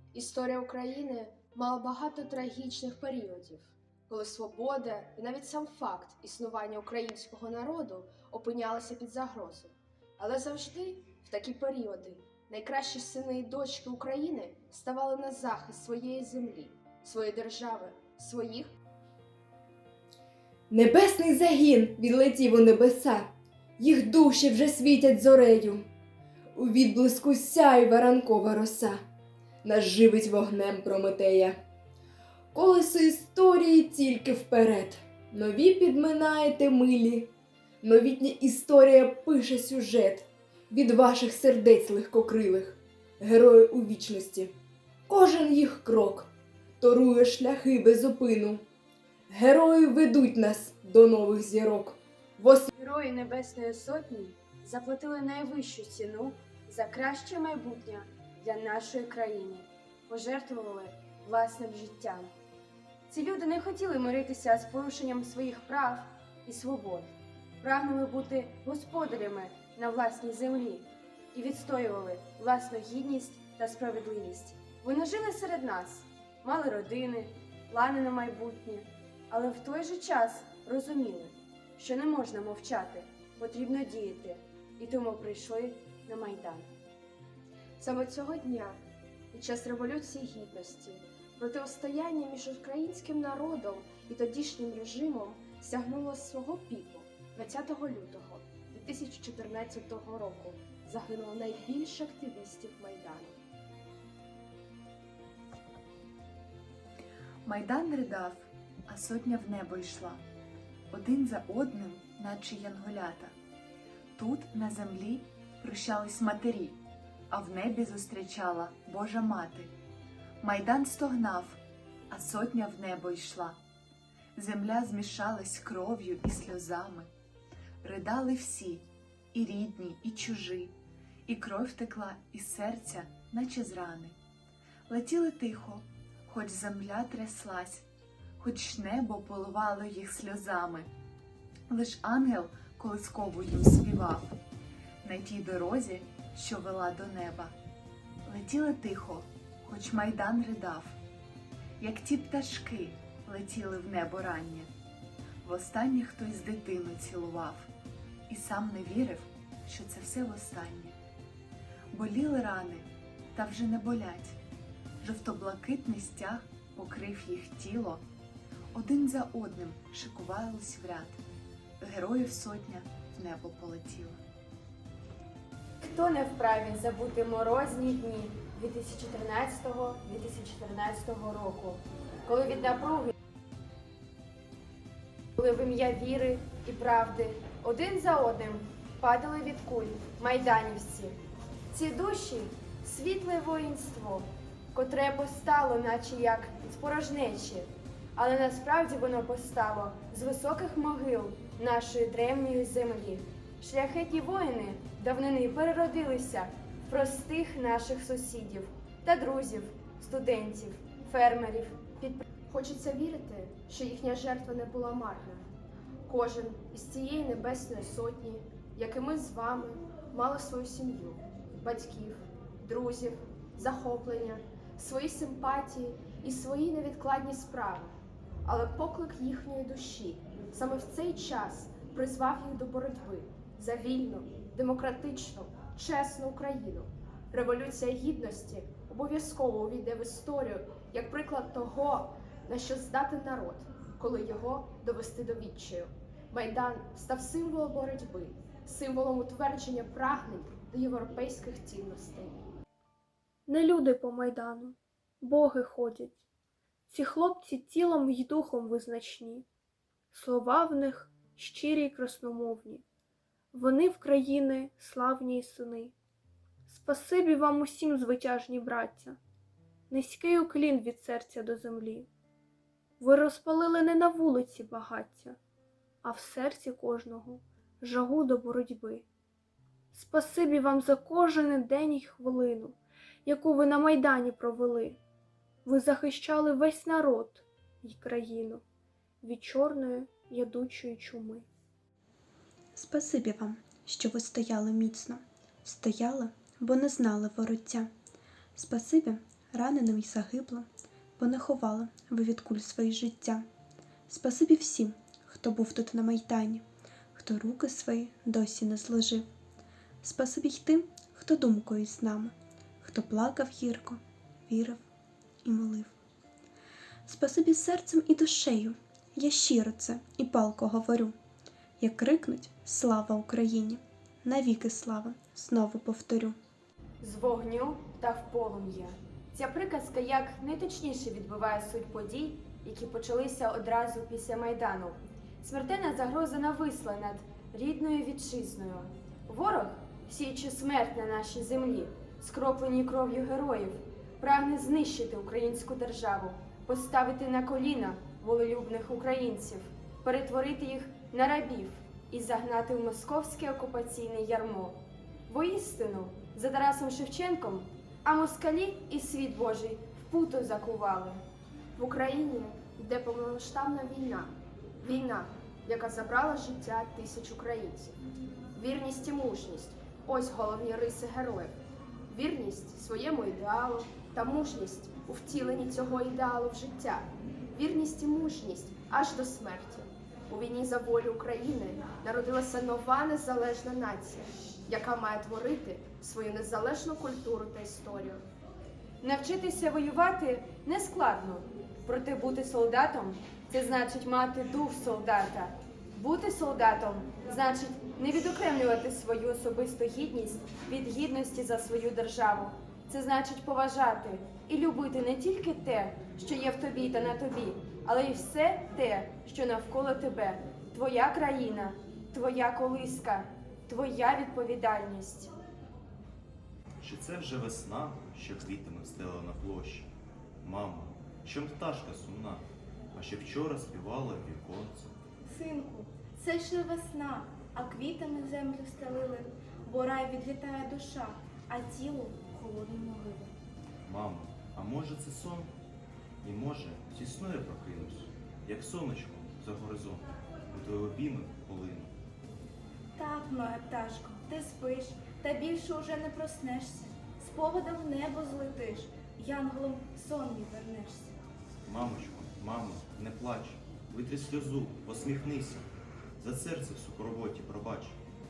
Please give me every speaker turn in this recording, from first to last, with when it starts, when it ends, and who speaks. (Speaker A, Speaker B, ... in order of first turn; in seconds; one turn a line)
Speaker A: 0.1-18.7
Speaker B: 20.7-25.9
Speaker B: 26.5-29.0
Speaker B: 29.6-31.6
Speaker B: 32.5-44.5
Speaker B: 45.1-46.3
Speaker B: 46.8-48.6
Speaker B: 49.3-52.7
Speaker C: 52.7-62.3
Speaker C: 63.1-86.7
Speaker A: 87.8-88.8
Speaker A: 89.3-103.4
Speaker D: 107.5-110.2
Speaker D: 110.9-113.3
Speaker D: 114.2-116.8
Speaker D: 117.3-119.7
Speaker D: 120.4-121.6
Speaker D: 122.1-123.6
Speaker D: 124.4-127.1
Speaker D: 127.8-134.2
Speaker D: 134.9-137.8
Speaker D: 138.4-140.9
Speaker D: 141.7-144.3
Speaker D: 145.0-147.6
Speaker D: 148.3-151.0
Speaker D: 151.8-154.7
Speaker D: 155.4-157.7
Speaker D: 158.3-161.0
Speaker D: 161.9-164.4
Speaker D: 165.0-168.0
Speaker D: 168.7-171.2
Speaker D: 171.8-174.2
Speaker C: 175.8-183.1
Speaker C: 185.4-191.2
Speaker C: 191.7-212.2
Speaker A: 212.5-215.4
Speaker A: 216.1-227.9
Speaker A: 228.4-252.4
Speaker E: 253.5-256.2
Speaker E: 256.9-259.5
Speaker E: 260.1-262.8
Speaker E: 263.5-265.9
Speaker E: 266.7-269.2
Speaker E: 269.9-272.1
Speaker E: 273.0-275.4
Speaker E: 276.0-279.1
Speaker E: 279.9-285.0
Speaker E: 285.6-288.6
Speaker E: 289.2-291.5
Speaker F: 292.8-297.9
Speaker F: 298.6-303.5
Speaker F: 304.1-309.3
Speaker F: 310.0-314.8
Speaker F: 315.4-315.9
Speaker F: 317.1-321.2
Speaker F: 321.8-326.4
Speaker C: 327.0-361.2
Speaker A: 361.8-368.0
Speaker A: 368.5-371.6
Speaker A: 372.1-388.2
Speaker C: 389.0-415.3
Speaker G: 416.8-424.9
Speaker H: 425.3-433.3
Speaker G: 433.9-435.5
Speaker G: 436.2-441.9
Speaker H: 443.0-451.1
Speaker G: 451.7-455.7
Speaker G: 456.2-458.0